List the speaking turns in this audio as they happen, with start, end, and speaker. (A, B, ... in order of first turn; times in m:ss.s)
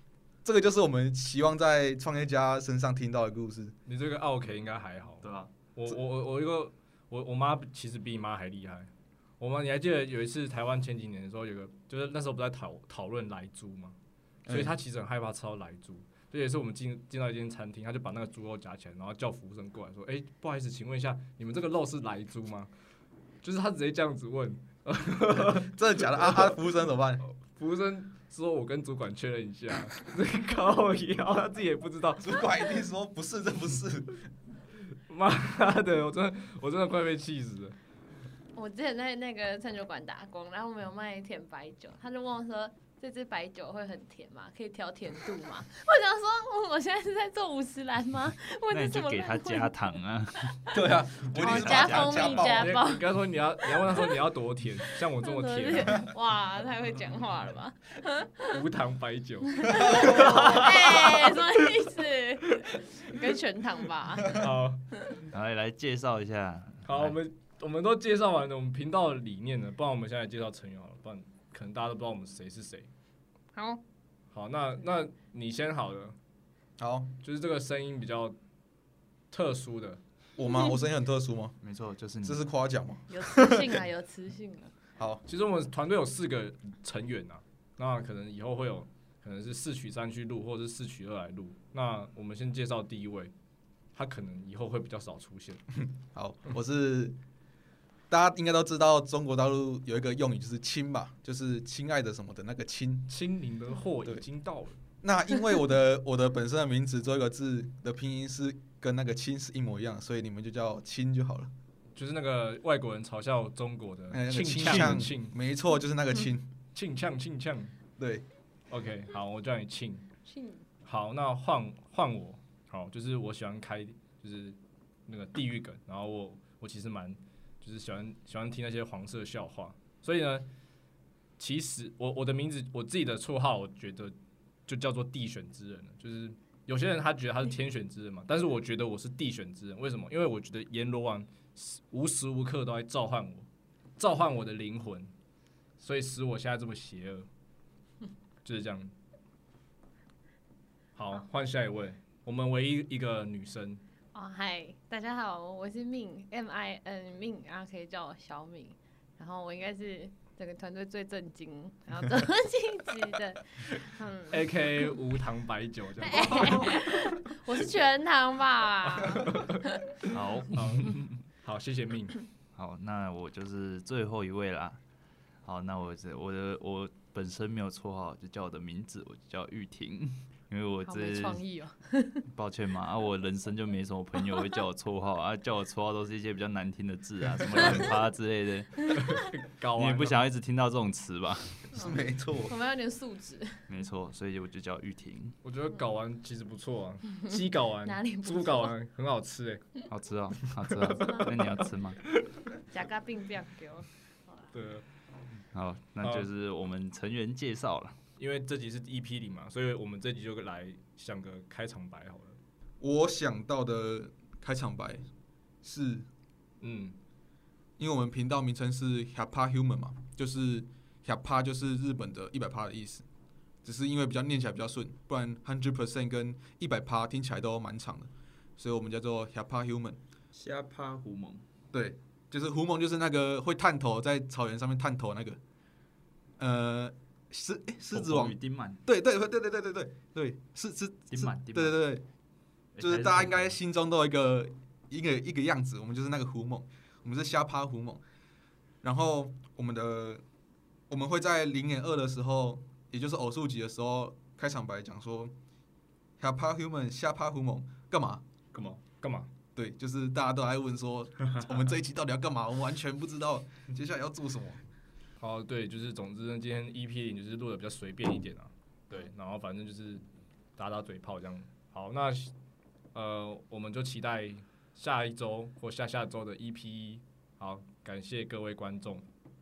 0:00.4-0:03.7 A
0:03.8-0:14.0 B
0:05.2-0:05.5 C
0:14.5-0:14.7 A
0:14.5-0:22.7 B
0:23.4-0:26.5 B
0:25.4-0:27.2 A
0:27.4-0:32.4 B
0:32.2-0:34.2 A
0:35.1-0:37.8 B
0:38.5-0:49.7 D
0:48.7-0:50.8 C
0:50.7-0:52.8 A
0:51.3-0:52.7 C
0:51.4-0:53.0 D
0:52.3-0:56.0 B
0:53.8-0:54.2 D
0:55.2-0:58.6 D
0:58.5-1:01.4 B
0:59.6-1:05.2 D
1:04.3-1:04.8 B
1:05.3-1:07.2 C
1:06.8-1:12.9 B
1:13.5-1:13.8 D
1:14.3-1:16.2 B
1:16.8-1:17.1 A
1:17.2-1:18.4 B
1:19.3-1:20.0 B
1:20.4-1:21.6 A
1:21.6-1:22.4 C
1:22.2-1:23.6 A
1:23.1-1:24.7 D
1:25.0-1:25.2 A
1:25.2-1:33.3 B
1:33.9-1:35.6 B
1:35.8-1:37.2 A
1:38.1-1:43.1 A
1:43.1-1:44.8 B
1:45.0-1:51.5 A
1:51.9-1:55.3 B
1:54.1-1:56.5 A
1:54.6-1:55.0 C
1:56.7-1:57.7 B
1:58.0-1:58.2 A
1:58.7-2:00.1 B
2:00.2-2:00.7 D
2:00.8-2:10.4 B
2:11.4-2:14.1 B
2:14.6-2:25.1 B
2:25.8-2:27.3 B
2:28.4-2:28.9 B
2:31.0-2:33.8 B
2:34.1-2:44.9 D
2:44.3-2:46.8 B
2:46.0-2:49.9 D
2:49.0-2:49.6 B
2:50.1-2:51.2 C
2:50.5-2:52.2 B
2:52.5-2:54.8 C
2:55.4-3:01.4 C
3:00.8-3:02.2 D
3:02.3-3:11.7 C
3:09.0-3:10.2 B
3:11.7-3:13.6 D
3:11.7-3:12.6 A
3:13.7-3:15.3 C
3:15.4-3:19.8 B
3:17.3-3:18.7 D
3:19.9-3:22.0 C
3:20.8-3:21.4 B
3:22.7-3:23.9 D
3:24.5-3:24.8 B
3:25.5-3:28.0 C
3:26.0-3:26.3 B
3:28.2-3:32.4 B
3:32.8-3:35.0 A
3:35.6-3:36.1 A
3:36.6-3:37.0 B
3:37.8-3:43.0 A
3:43.6-3:50.0 A
3:50.3-3:51.4 C
3:51.7-3:55.4 A
3:56.4-4:02.0 A
3:57.9-3:58.8 C
4:01.1-4:01.8 C
4:02.7-4:03.6 C
4:02.8-4:08.0 A
4:08.8-4:10.2 A
4:10.9-4:15.3 A
4:16.2-4:18.2 A
4:18.5-4:18.8 C
4:19.0-4:19.3 B
4:19.6-4:24.6 A
4:25.2-4:30.0 B
4:30.6-4:32.3 B
4:32.9-4:39.0 B